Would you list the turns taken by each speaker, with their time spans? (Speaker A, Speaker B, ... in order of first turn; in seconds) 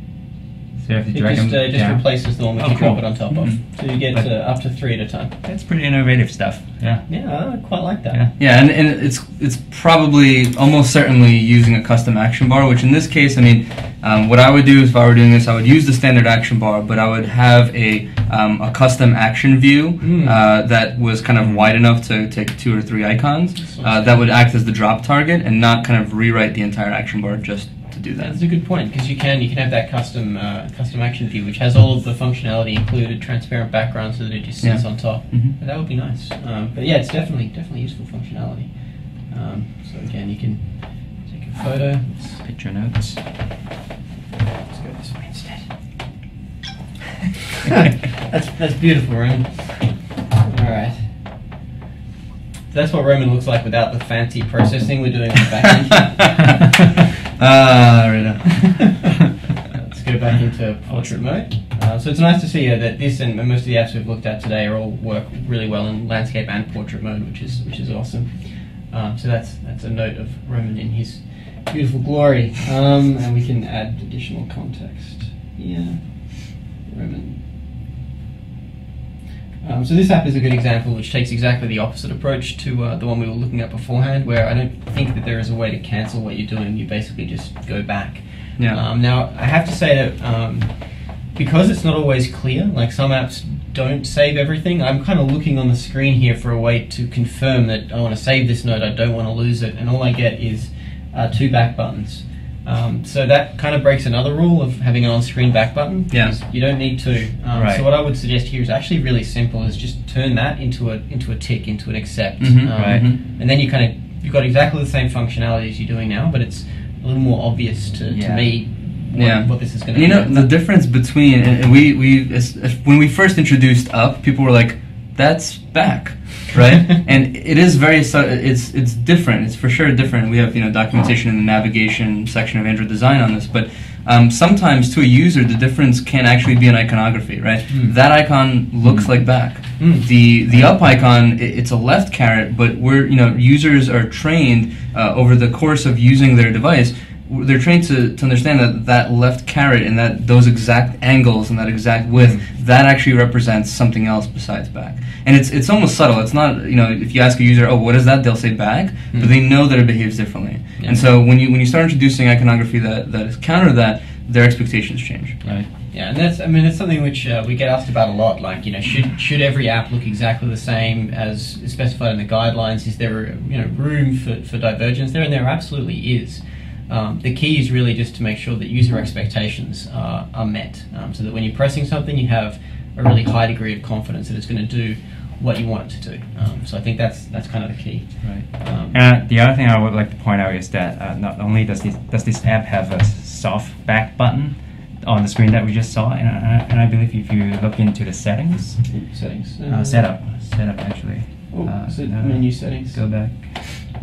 Speaker A: 0.8-4.3, 5.4-8.3, 21.4-21.7, 42.4-43.2, 60.9-61.3, 107.5-107.9, 112.8-113.0, 118.1-118.5, 138.8-139.1, 188.2-199.0, 199.7-203.5
Speaker B: 1.1-5.3, 7.1-8.2, 20.0-20.4, 23.7-24.1, 28.2-42.4, 44.5-45.7, 47.7-51.2, 52.7-56.6, 58.8-59.0, 59.6-77.4, 79.6-120.5, 139.8-140.1, 152.2-152.4, 160.8-161.1, 165.4-189.0, 198.9-200.1, 201.5-203.0
Speaker C: 3.3-3.6, 8.4-28.4, 34.6-35.5, 57.4-59.1, 106.1-106.3, 112.4-113.2, 119.1-165.4